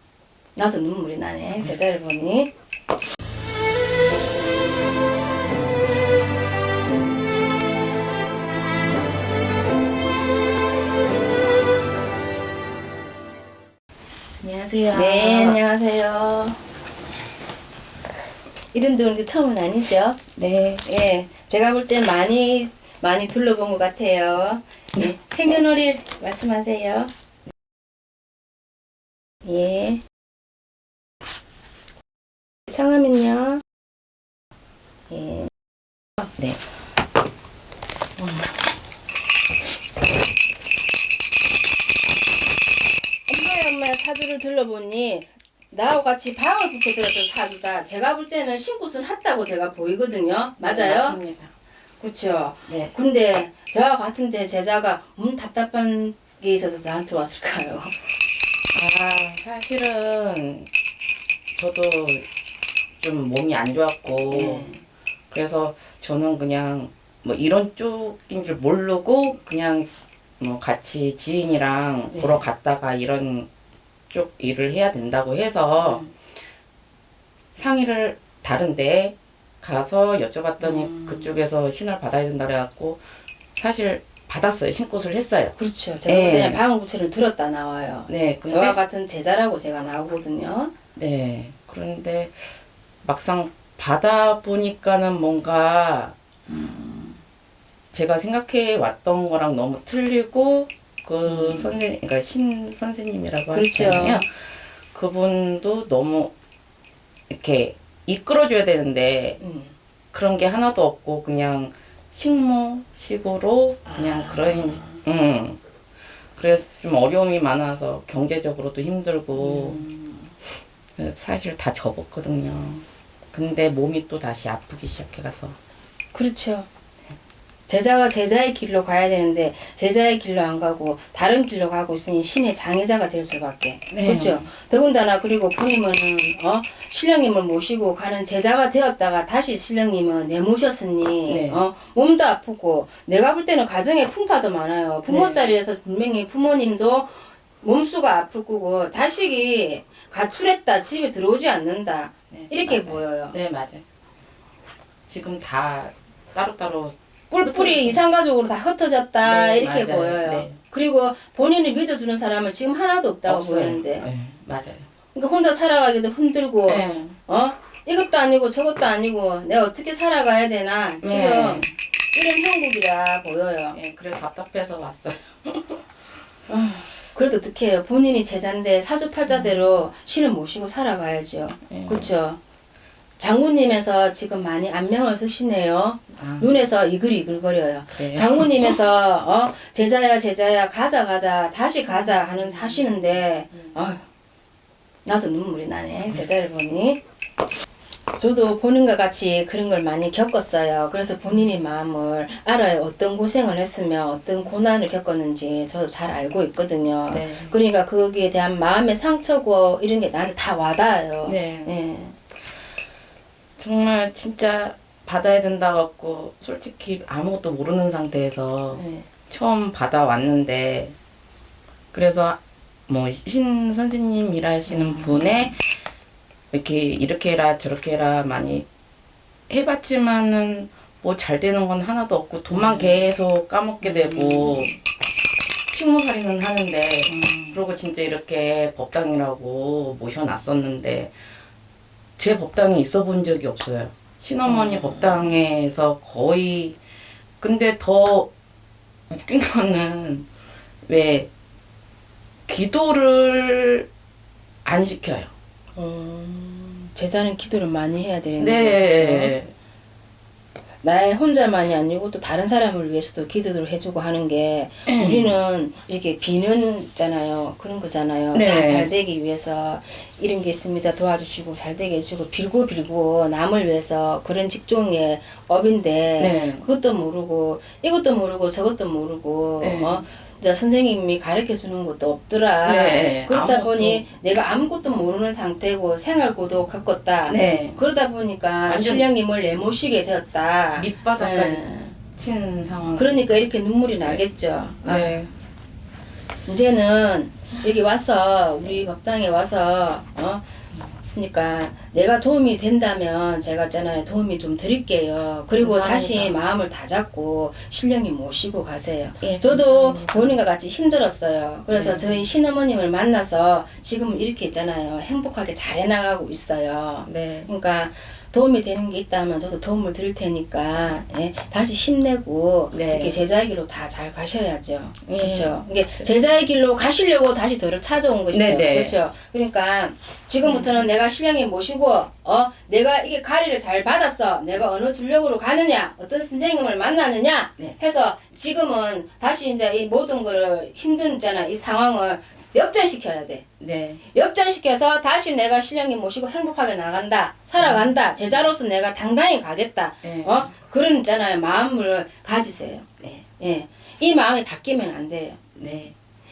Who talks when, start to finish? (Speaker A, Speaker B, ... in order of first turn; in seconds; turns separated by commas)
Speaker A: 0.6-2.5, Speaker B: 14.4-15.6, Speaker A: 14.9-16.6, Speaker A: 18.7-20.2, Speaker B: 20.4-20.8, Speaker A: 20.8-27.1, Speaker A: 29.4-30.0, Speaker A: 32.7-33.6, Speaker A: 35.1-35.5, Speaker A: 43.3-51.2, Speaker B: 50.6-51.5, Speaker A: 52.0-57.9, Speaker B: 58.7-60.7, Speaker B: 61.5-62.2, Speaker B: 63.0-64.7, Speaker A: 64.3-64.8, Speaker B: 65.3-69.9, Speaker B: 70.4-73.5, Speaker A: 72.1-72.4, Speaker B: 74.1-76.0, Speaker A: 75.8-76.1, Speaker B: 77.5-83.0, Speaker A: 80.6-81.3, Speaker B: 83.5-85.5, Speaker A: 85.5-90.7, Speaker B: 86.1-86.6, Speaker B: 88.1-88.8, Speaker B: 90.9-92.5, Speaker B: 93.0-96.2, Speaker A: 96.5-97.2, Speaker B: 97.9-106.3, Speaker A: 101.2-101.8, Speaker A: 103.5-104.2, Speaker B: 107.3-109.4, Speaker A: 109.4-109.7, Speaker B: 110.1-115.6, Speaker A: 113.8-115.0, Speaker B: 116.3-119.8, Speaker A: 119.4-120.3, Speaker B: 121.0-125.6, Speaker A: 126.1-126.7, Speaker A: 127.7-153.3, Speaker B: 133.9-134.5, Speaker B: 141.2-141.6, Speaker B: 145.1-145.5, Speaker B: 152.3-153.8, Speaker B: 155.1-158.0, Speaker A: 157.3-164.1, Speaker B: 159.2-160.6, Speaker B: 163.2-164.9, Speaker A: 165.1-173.8, Speaker B: 166.7-167.2, Speaker B: 171.0-171.7, Speaker B: 173.7-175.8, Speaker A: 176.5-182.4, Speaker B: 179.3-179.6, Speaker B: 181.7-182.1, Speaker A: 183.2-194.0, Speaker B: 186.2-186.6, Speaker B: 187.9-188.7, Speaker B: 192.1-193.8, Speaker A: 195.0-197.0, Speaker A: 198.2-212.2, Speaker B: 207.1-207.5, Speaker B: 211.2-211.7, Speaker B: 213.6-220.9, Speaker A: 218.7-219.1, Speaker B: 221.9-225.8, Speaker A: 224.7-225.5, Speaker B: 226.5-228.7, Speaker B: 229.5-234.7, Speaker A: 232.5-233.1, Speaker A: 233.8-234.8, Speaker B: 235.7-241.1, Speaker A: 237.1-237.6, Speaker B: 242.2-246.8, Speaker A: 244.4-245.3, Speaker B: 247.4-248.3, Speaker B: 249.1-250.3, Speaker B: 250.9-251.3, Speaker B: 252.5-253.9, Speaker B: 254.6-255.3, Speaker A: 255.7-259.4, Speaker B: 258.4-259.5, Speaker A: 260.8-291.9, Speaker B: 264.9-265.4, Speaker B: 268.3-268.9, Speaker B: 276.2-276.6, Speaker B: 279.6-280.0, Speaker B: 282.6-284.1, Speaker B: 287.2-287.8, Speaker B: 288.6-289.1, Speaker B: 290.8-293.4, Speaker A: 292.9-295.3, Speaker B: 294.8-295.3, Speaker A: 296.4-343.4, Speaker B: 305.6-306.4, Speaker B: 309.2-310.3, Speaker B: 311.7-312.2, Speaker B: 317.1-317.5, Speaker B: 322.7-323.2, Speaker B: 325.1-326.1, Speaker B: 328.3-329.0, Speaker B: 330.4-330.9, Speaker B: 343.6-344.0, Speaker A: 344.1-355.4, Speaker B: 347.6-348.5, Speaker B: 350.0-350.5, Speaker B: 355.6-355.9